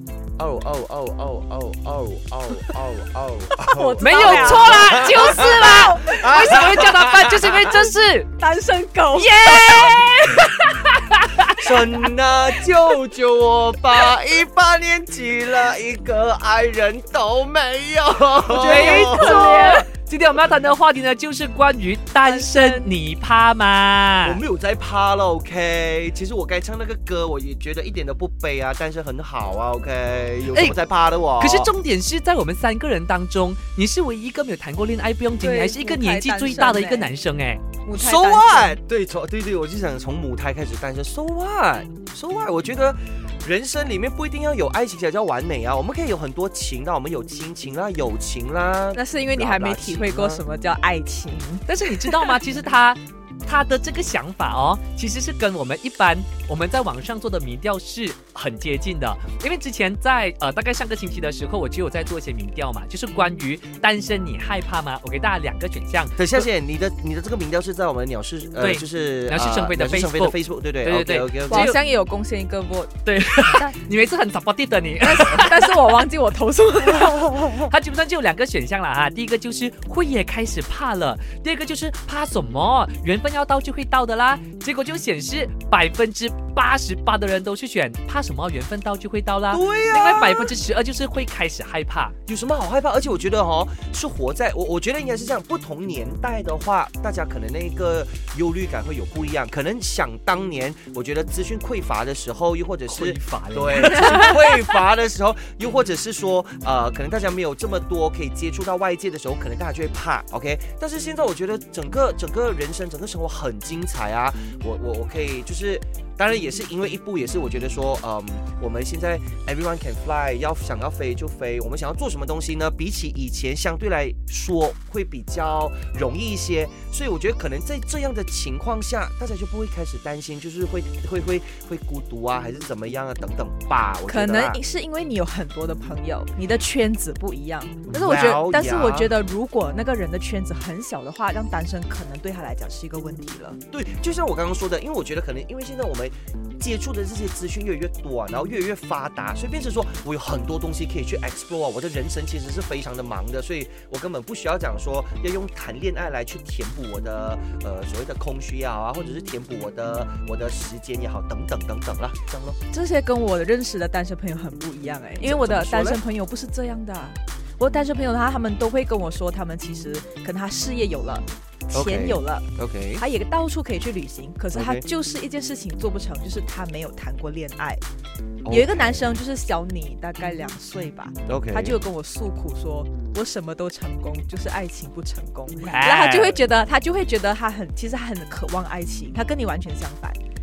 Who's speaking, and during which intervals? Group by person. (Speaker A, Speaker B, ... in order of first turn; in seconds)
Speaker A: 0.4-7.8, 11.6-19.5, 24.2-31.7, 37.9-50.4, 66.2-71.7, 89.5-90.5, 92.3-134.6, 137.9-139.1, 143.7-162.6, 165.2-166.0, 171.7-173.0, 174.5-174.8, 178.4-179.1, 181.3-181.8
Speaker B: 3.6-6.3, 8.4-10.5, 18.5-19.9, 22.2-22.9, 35.4-37.1, 37.8-38.8, 48.9-52.4, 71.5-73.8, 75.0-77.7, 134.1-143.6, 162.7-172.5, 173.0-177.8, 178.5-190.2
Speaker C: 4.0-8.3, 9.1-11.8, 18.6-24.4, 30.5-30.8, 31.4-37.6, 51.7-66.4, 68.6-71.8, 73.0-76.0, 77.6-92.2, 102.9-104.7, 185.7-186.4